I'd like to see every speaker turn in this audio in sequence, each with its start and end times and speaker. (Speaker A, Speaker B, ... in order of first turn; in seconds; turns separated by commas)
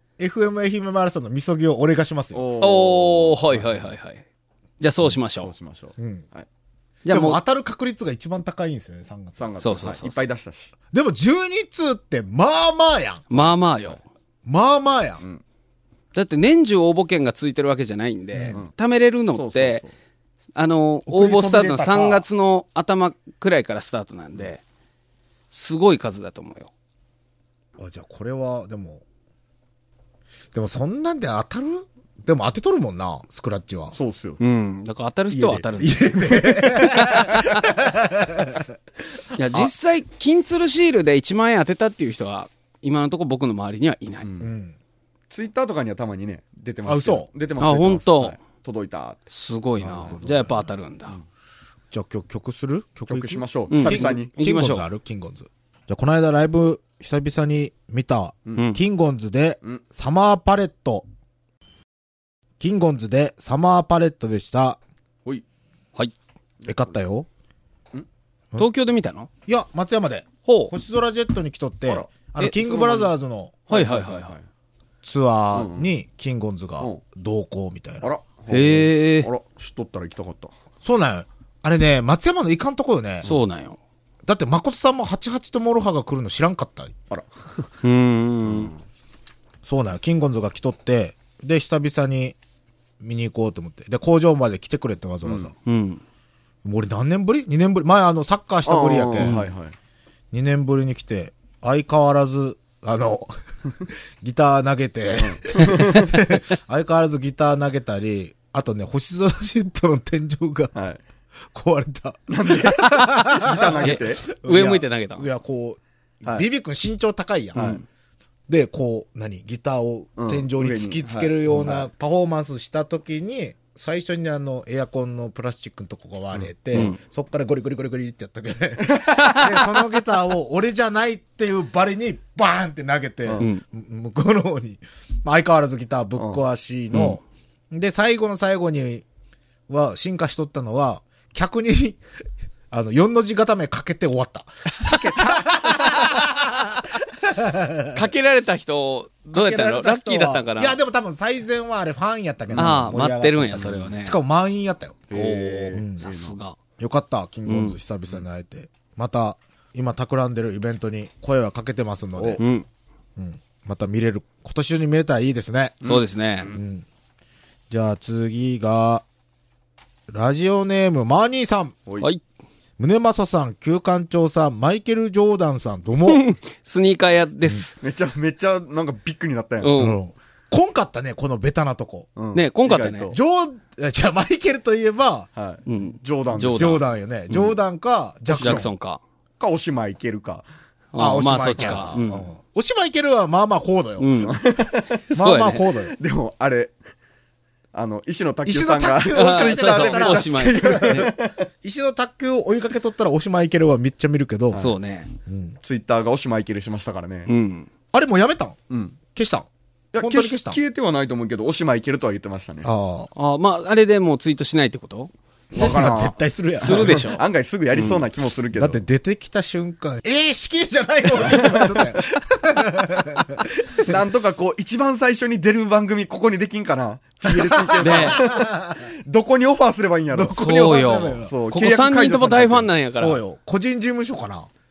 Speaker A: 0.2-2.5, Speaker B: 2.3-3.4, Speaker C: 2.6-4.2, Speaker C: 4.8-5.5, Speaker B: 5.4-6.5, Speaker A: 6.0-6.2, Speaker C: 7.1-7.4, Speaker A: 7.1-9.4, Speaker B: 9.4-10.7, Speaker C: 9.6-10.2, Speaker A: 10.9-13.5, Speaker C: 13.3-14.0, Speaker A: 14.4-15.2, Speaker C: 16.1-19.8, Speaker A: 18.3-18.6, Speaker B: 19.3-19.9, Speaker C: 20.6-24.6, Speaker A: 21.1-22.2, Speaker C: 25.5-26.7, Speaker A: 27.8-29.0, Speaker A: 30.5-34.0, Speaker B: 33.9-34.4, Speaker C: 34.4-37.5, Speaker B: 35.3-35.6, Speaker A: 35.8-38.8, Speaker C: 39.4-44.3, Speaker B: 44.2-44.5, Speaker A: 44.4-44.8, Speaker B: 45.3-49.2, Speaker A: 46.9-47.3, Speaker C: 47.6-48.4, Speaker C: 49.3-51.1, Speaker A: 49.8-50.7, Speaker A: 51.9-61.1, Speaker B: 53.1-54.3, Speaker C: 53.7-54.8, Speaker C: 58.6-58.8, Speaker A: 62.6-64.8, Speaker B: 66.6-66.9, Speaker A: 66.7-67.3, Speaker C: 68.6-69.3, Speaker A: 69.5-73.6, Speaker C: 70.5-70.7, Speaker B: 71.9-73.1, Speaker B: 73.7-74.4, Speaker C: 73.7-74.3, Speaker A: 75.0-78.1, Speaker B: 75.5-75.9, Speaker B: 78.0-80.5, Speaker C: 78.5-79.3, Speaker A: 80.8-83.3, Speaker C: 83.2-83.8, Speaker A: 84.2-86.9, Speaker B: 87.1-87.7, Speaker C: 87.8-88.7, Speaker B: 88.5-88.8, Speaker A: 89.6-92.4, Speaker A: 93.0-95.5, Speaker B: 95.2-95.5, Speaker C: 95.6-96.0, Speaker A: 96.6-99.4, Speaker B: 98.7-99.8, Speaker C: 99.2-99.5, Speaker A: 100.3-103.4, Speaker A: 104.2-110.7, Speaker B: 105.2-106.2, Speaker B: 110.8-111.0, Speaker A: 111.5-117.8, Speaker B: 112.3-114.2, Speaker C: 113.8-115.3, Speaker B: 117.5-117.8, Speaker C: 117.5-117.8, Speaker A: 118.5-139.1, Speaker B: 120.2-121.9, Speaker B: 126.3-126.9, Speaker B: 128.8-129.3, Speaker C: 129.1-129.5, Speaker C: 136.9-137.2, Speaker A: 139.7-142.0, Speaker A: 142.7-144.5, Speaker B: 144.8-146.0, Speaker A: 145.2-148.1, Speaker C: 145.7-146.2, Speaker C: 147.9-150.8, Speaker A: 149.3-155.1, Speaker B: 152.5-152.8, Speaker C: 152.6-154.2, Speaker B: 155.1-156.3, Speaker C: 155.1-156.6, Speaker A: 155.8-156.0, Speaker A: 156.8-162.4, Speaker C: 157.5-157.8, Speaker C: 162.4-162.7, Speaker A: 163.2-165.8, Speaker B: 165.8-166.6, Speaker C: 165.8-166.6, Speaker A: 166.5-166.9, Speaker A: 167.7-169.0, Speaker A: 170.1-171.8, Speaker A: 172.8-176.2, Speaker C: 176.1-177.8, Speaker B: 177.8-179.8, Speaker C: 179.6-180.0, Speaker A: 179.7-182.1, Speaker B: 182.2-183.2, Speaker C: 182.3-183.1, Speaker A: 183.1-185.3, Speaker B: 185.4-186.8, Speaker C: 185.7-186.8, Speaker A: 186.5-188.7, Speaker C: 188.3-189.0, Speaker B: 188.3-188.7, Speaker B: 189.4-190.5, Speaker C: 190.9-192.3, Speaker A: 191.0-194.1, Speaker B: 191.6-191.8, Speaker C: 194.0-194.4, Speaker B: 194.2-195.0, Speaker C: 195.1-195.7, Speaker A: 195.1-196.0, Speaker B: 195.9-196.7, Speaker B: 197.7-201.5, Speaker A: 198.4-204.7, Speaker C: 199.1-201.1, Speaker C: 204.6-205.1, Speaker A: 205.3-205.6, Speaker B: 205.6-207.3, Speaker C: 207.3-207.7, Speaker A: 207.9-208.6, Speaker B: 208.7-209.0, Speaker A: 209.1-210.6, Speaker B: 209.9-212.7, Speaker A: 212.6-213.1, Speaker C: 213.2-215.1, Speaker A: 215.5-217.1, Speaker B: 215.6-218.8, Speaker C: 216.6-217.2, Speaker A: 218.6-224.0, Speaker B: 221.1-222.0, Speaker B: 223.8-230.4, Speaker A: 227.2-228.8, Speaker C: 227.8-228.2, Speaker A: 230.1-231.3, Speaker C: 230.4-233.2, Speaker B: 231.3-232.7, Speaker A: 233.0-234.5